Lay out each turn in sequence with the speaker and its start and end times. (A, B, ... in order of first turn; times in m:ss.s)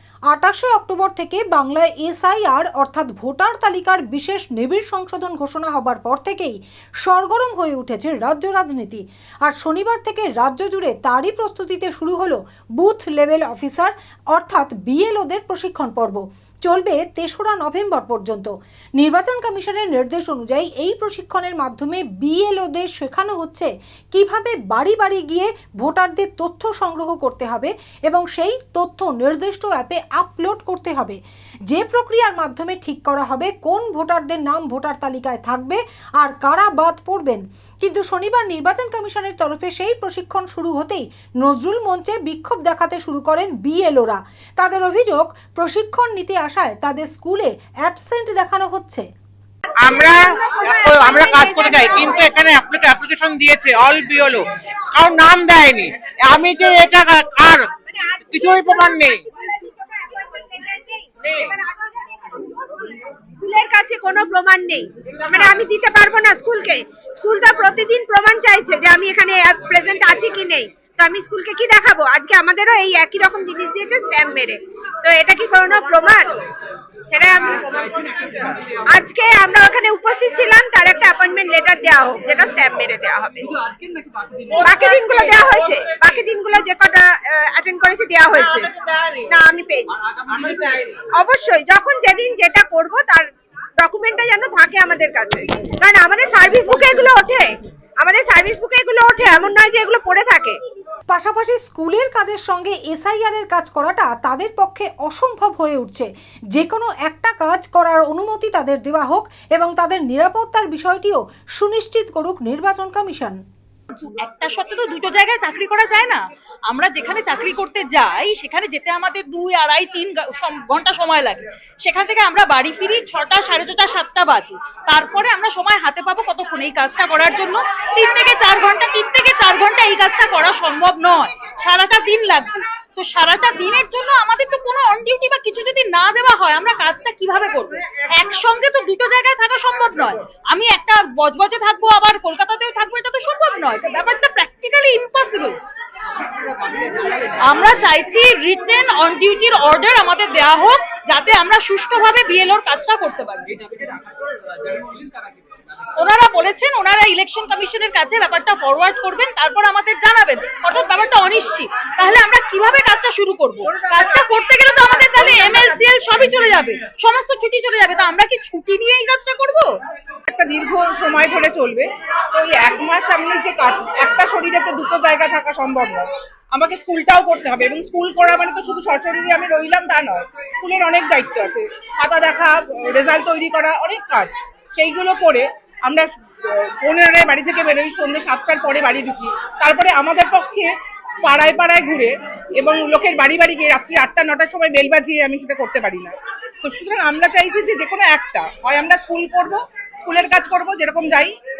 0:00.3-0:49.1 A
0:49.9-0:50.2 B
0:50.0-0:52.4 C
0:50.7-0:57.7 B
0:57.9-1:16.3 C
0:58.3-0:59.2 B
1:17.1-1:23.5 C
1:24.6-1:40.6 C
1:41.1-1:53.4 A
1:54.0-2:25.6 D
2:27.3-2:34.0 D
2:34.7-2:35.0 D
2:36.0-2:49.7 D
2:50.3-3:21.4 E